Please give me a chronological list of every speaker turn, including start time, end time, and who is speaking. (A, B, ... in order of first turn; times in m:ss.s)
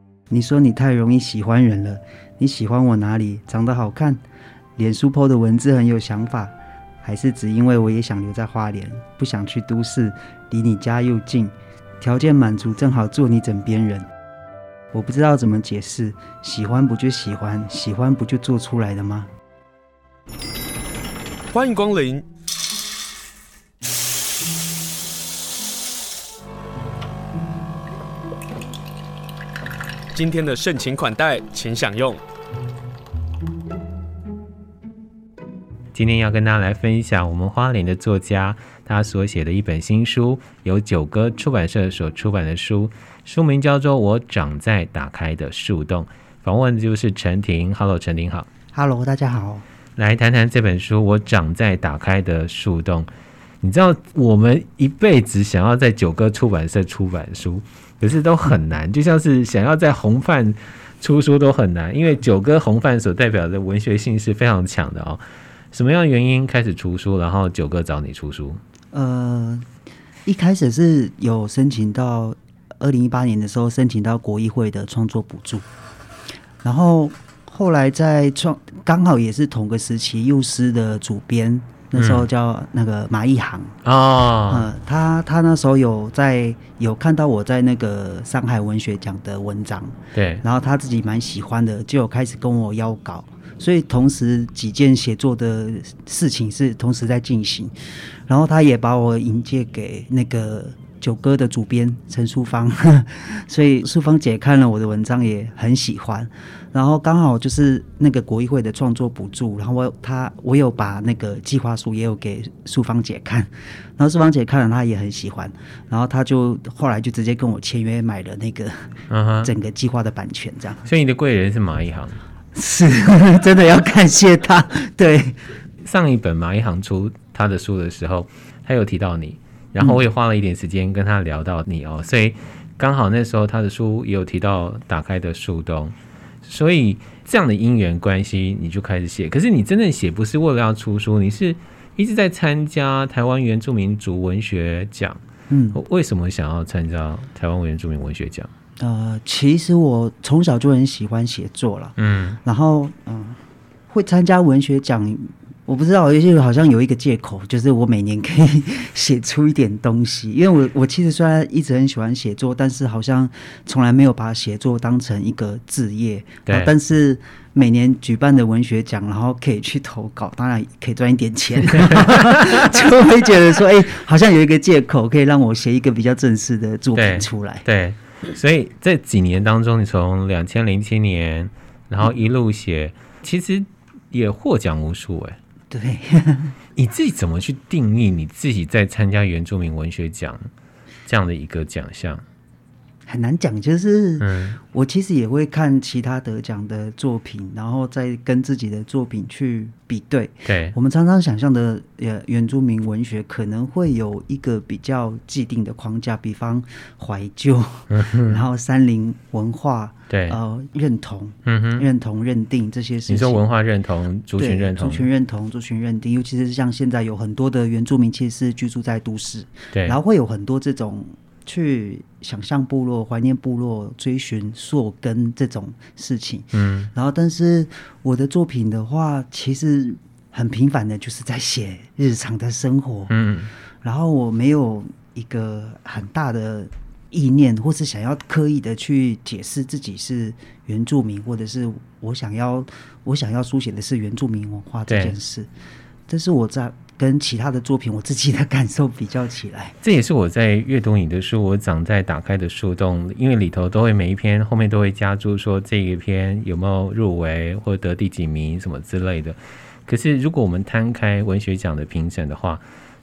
0:00.3-0:04.2 A
0:04.8-0:14.0 A
0:14.9-0:19.3 A
0:21.5-0:22.2 B
0:30.1-0:32.2 B
0:35.9-0:48.5 C
0:48.7-0:49.6 A
0:50.0-0:53.1 C
0:53.6-1:08.6 C
1:08.9-1:09.7 A
1:10.2-1:15.6 A
1:16.6-1:23.7 A
1:22.0-1:22.2 C
1:23.8-1:24.7 C
1:24.5-2:00.9 A
1:30.1-1:30.4 C
1:59.1-1:59.5 C
2:00.8-2:02.2 C
2:02.5-2:05.4 A
2:05.8-2:25.2 C
2:25.5-2:25.8 A
2:25.7-2:28.5 C
2:28.8-2:57.6 A
2:32.0-2:32.4 C
2:46.5-2:46.7 C
2:51.8-2:52.8 C
2:57.0-3:05.4 C
3:05.7-3:06.6 A
3:06.8-3:10.5 C
3:11.0-3:12.2 C
3:13.0-3:33.4 A
3:14.2-3:14.6 C
3:20.4-3:20.7 C
3:27.9-3:28.4 C
3:30.1-3:30.4 C
3:31.4-3:31.8 C
3:33.1-3:35.0 C
3:34.4-3:53.1 A
3:39.7-3:40.0 C
3:46.5-3:46.9 C
3:53.1-3:53.5 C
3:53.8-4:05.5 A
4:04.9-4:05.2 C
4:06.1-4:09.8 A
4:09.8-4:22.6 C